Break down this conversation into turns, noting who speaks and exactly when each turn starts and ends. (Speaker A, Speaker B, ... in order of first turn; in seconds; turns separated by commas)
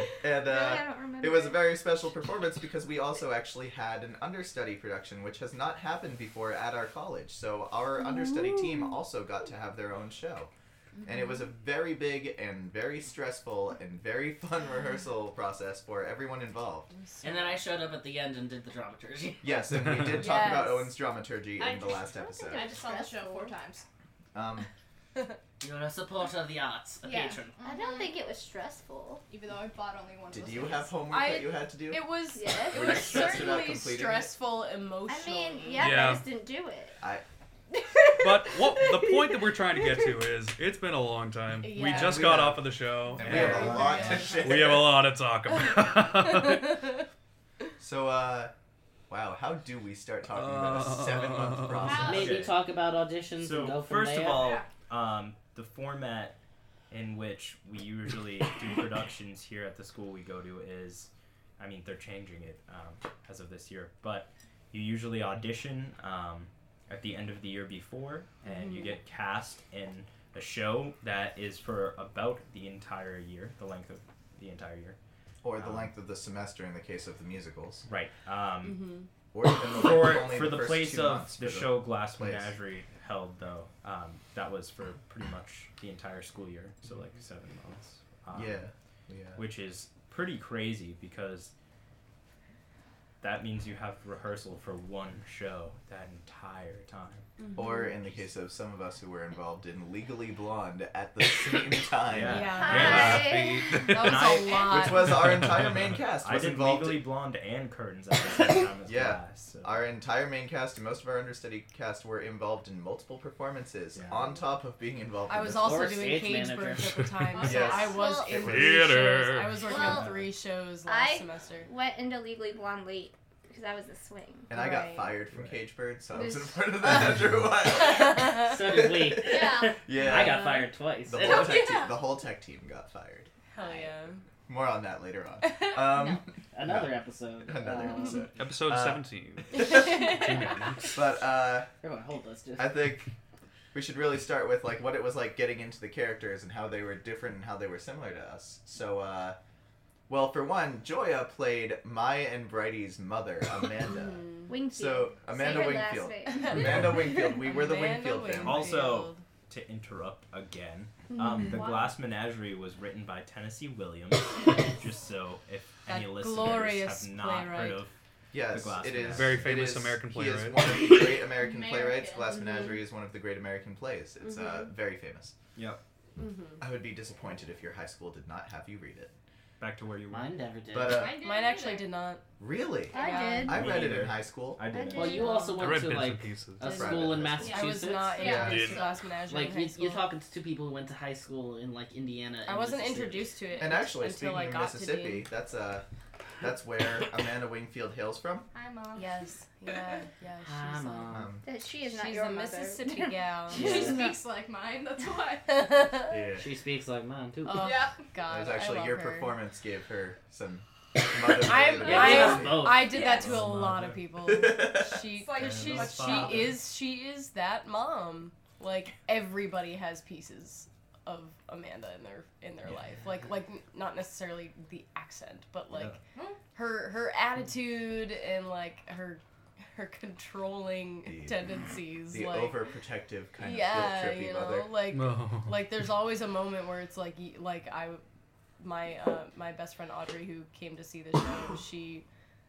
Speaker A: 0.2-10.5, Speaker B: 0.4-1.7, Speaker A: 11.1-16.9, Speaker C: 16.9-17.6, Speaker D: 17.2-19.7, Speaker A: 19.4-22.7, Speaker E: 19.8-20.2, Speaker C: 20.0-20.9, Speaker F: 21.6-23.9, Speaker B: 22.5-23.6, Speaker A: 24.3-24.7, Speaker D: 25.6-27.6, Speaker F: 27.0-28.1, Speaker B: 27.6-29.2, Speaker F: 29.3-31.0, Speaker A: 30.3-32.1, Speaker C: 31.1-35.9, Speaker B: 32.3-33.4, Speaker A: 32.7-34.3, Speaker B: 35.1-37.0, Speaker E: 35.8-36.2, Speaker C: 37.9-39.2, Speaker E: 38.2-46.9, Speaker C: 41.6-42.4, Speaker A: 41.8-45.0, Speaker C: 43.2-44.4, Speaker F: 43.6-44.5, Speaker C: 46.3-46.8, Speaker A: 47.8-48.5, Speaker A: 49.1-52.4, Speaker E: 50.3-51.9, Speaker F: 51.8-52.4, Speaker D: 52.0-54.5, Speaker G: 52.1-52.6, Speaker G: 53.4-56.4, Speaker F: 54.3-54.7, Speaker G: 56.9-75.0, Speaker C: 68.4-69.0, Speaker A: 75.4-77.9, Speaker G: 75.6-75.9, Speaker G: 77.9-78.9, Speaker C: 78.6-79.1, Speaker A: 79.3-82.5, Speaker G: 79.5-88.6, Speaker A: 88.3-89.4, Speaker G: 89.4-91.5, Speaker G: 93.2-97.3, Speaker C: 97.4-98.0, Speaker A: 97.6-103.0, Speaker G: 102.1-103.1, Speaker C: 102.2-105.4, Speaker B: 102.5-103.9, Speaker E: 102.7-104.4, Speaker G: 103.9-104.9, Speaker A: 104.7-107.1, Speaker E: 105.0-106.0, Speaker G: 105.6-109.8, Speaker A: 108.9-116.2, Speaker G: 113.9-114.3, Speaker C: 115.3-121.7, Speaker D: 115.6-117.1, Speaker F: 117.3-118.1, Speaker B: 117.4-118.5, Speaker A: 117.5-118.8, Speaker E: 118.3-119.7, Speaker B: 119.6-120.2, Speaker G: 119.8-120.3, Speaker B: 120.8-124.5, Speaker A: 124.5-130.5, Speaker C: 124.5-125.2, Speaker G: 125.3-125.6, Speaker B: 126.1-126.8, Speaker D: 128.4-131.6, Speaker F: 129.2-129.8, Speaker C: 129.9-130.7, Speaker A: 131.1-133.3, Speaker F: 131.2-132.0, Speaker C: 133.5-134.2, Speaker A: 134.5-140.0, Speaker C: 135.4-135.8, Speaker F: 135.9-136.2, Speaker D: 136.5-138.2, Speaker E: 138.4-140.9, Speaker C: 139.6-140.4, Speaker A: 140.9-141.7, Speaker D: 141.8-142.9, Speaker A: 142.6-143.1, Speaker A: 143.7-149.4, Speaker A: 150.1-158.9, Speaker C: 153.8-154.5, Speaker B: 154.5-156.6, Speaker C: 155.4-159.2, Speaker G: 158.4-167.9, Speaker B: 161.1-161.9, Speaker C: 161.5-161.8, Speaker C: 165.9-167.8, Speaker A: 168.3-175.3, Speaker G: 168.5-169.6, Speaker E: 169.1-170.6, Speaker F: 171.3-172.4, Speaker C: 172.5-172.8, Speaker C: 174.2-174.7, Speaker C: 176.2-176.6, Speaker A: 176.6-179.1, Speaker G: 179.6-180.3, Speaker D: 180.1-181.1, Speaker A: 180.7-181.2, Speaker F: 180.9-181.9, Speaker C: 181.1-182.2, Speaker A: 182.4-184.6, Speaker B: 182.9-183.7, Speaker C: 182.9-183.6, Speaker G: 183.5-185.3, Speaker B: 184.7-185.6, Speaker D: 184.9-188.7, Speaker C: 185.0-185.7, Speaker E: 185.6-186.8, Speaker C: 186.7-190.0, Speaker A: 186.8-187.6, Speaker F: 187.4-188.9, Speaker A: 188.2-188.7, Speaker E: 188.3-188.8, Speaker D: 189.3-193.4, Speaker C: 192.5-195.3, Speaker A: 193.6-195.9, Speaker A: 196.4-198.5, Speaker F: 198.5-199.2, Speaker C: 198.9-201.3, Speaker D: 200.4-201.3, Speaker A: 201.1-201.5, Speaker B: 201.4-204.2, Speaker C: 201.8-204.0, Speaker F: 203.5-205.8, Speaker D: 203.6-204.0, Speaker C: 205.5-206.2, Speaker A: 206.1-206.4, Speaker D: 206.3-207.8, Speaker C: 207.5-209.4, Speaker F: 207.6-208.1, Speaker A: 208.3-212.7, Speaker C: 211.3-226.0, Speaker F: 211.7-213.2, Speaker D: 211.8-213.4, Speaker G: 213.0-214.1, Speaker A: 214.3-215.0, Speaker F: 215.1-216.5, Speaker G: 215.3-216.6, Speaker G: 225.7-226.0, Speaker F: 226.1-226.4, Speaker C: 226.5-232.6, Speaker A: 231.1-234.8, Speaker C: 233.4-238.0, Speaker E: 234.9-235.7, Speaker C: 238.6-242.1